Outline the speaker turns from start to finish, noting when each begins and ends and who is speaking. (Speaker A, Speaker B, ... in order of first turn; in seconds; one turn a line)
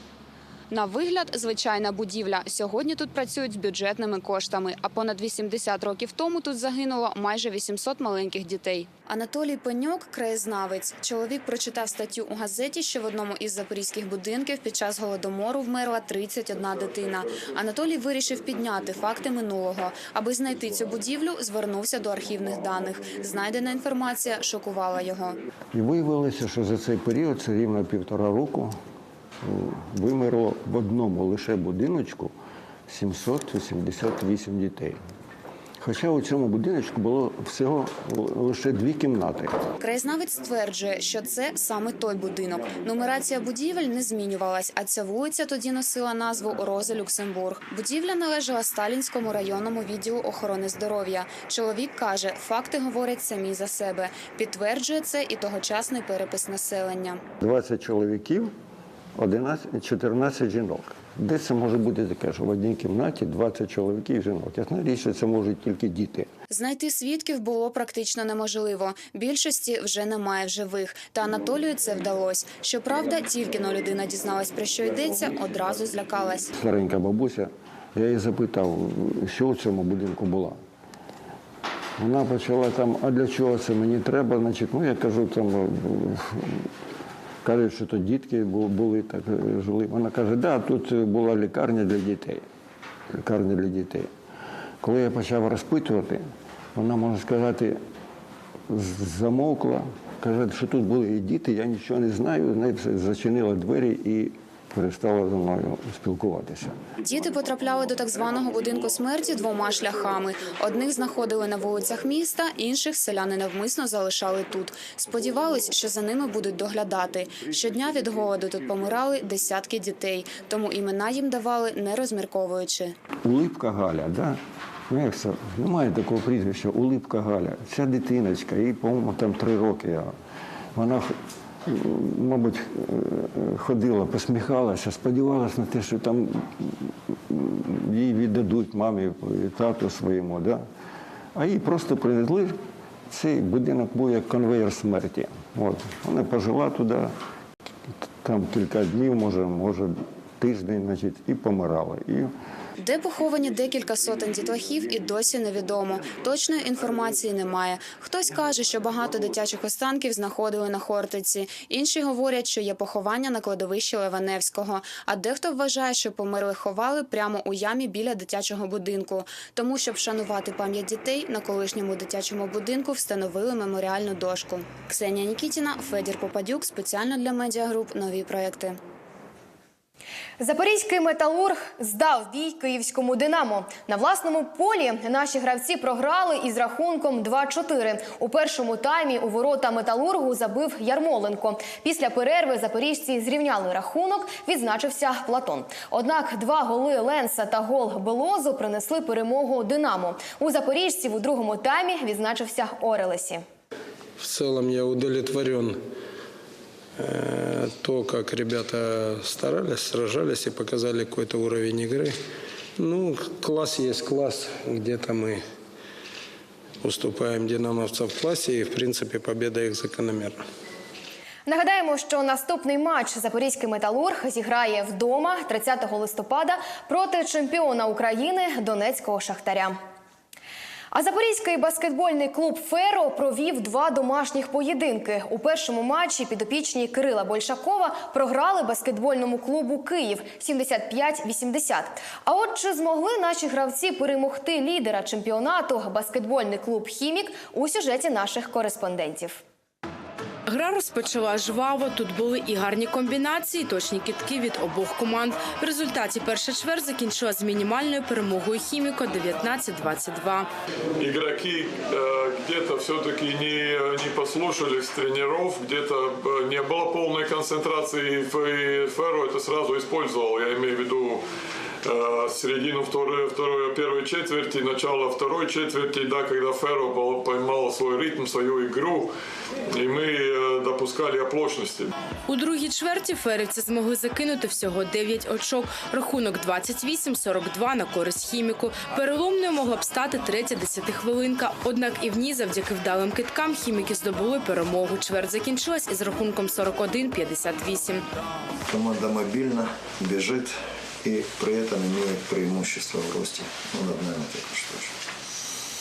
Speaker A: 0.7-25.4
Speaker B: 25.7-28.8
Speaker B: 29.4-32.3
Speaker B: 32.9-35.0
Speaker B: 35.8-39.6
Speaker A: 39.8-57.2
Speaker B: 57.4-58.5
Speaker B: 59.2-66.3
Speaker A: 66.5-76.5
Speaker B: 76.6-80.5
Speaker B: 82.0-86.6
Speaker B: 87.4-92.4
Speaker B: 93.2-94.1
Speaker B: 94.8-96.2
Speaker B: 96.8-97.8
Speaker B: 98.7-106.8
Speaker A: 107.0-123.0
Speaker B: 123.2-124.4
Speaker B: 124.9-130.1
Speaker B: 130.8-131.1
Speaker B: 131.7-136.7
Speaker B: 137.3-140.6
Speaker B: 141.3-142.5
Speaker B: 143.1-147.1
Speaker B: 148.2-152.3
Speaker A: 152.8-178.8
Speaker C: 180.4-203.4
Speaker D: 204.2-205.8
Speaker D: 207.0-212.2
Speaker D: 212.8-215.4
Speaker D: 216.8-220.4
Speaker C: 221.5-229.8
Speaker C: 230.9-249.4
Speaker E: 250.5-260.5
Speaker F: 261.0-271.2
Speaker F: 271.9-279.1
Speaker F: 279.7-281.9
Speaker E: 282.3-298.0
Speaker G: 298.7-304.9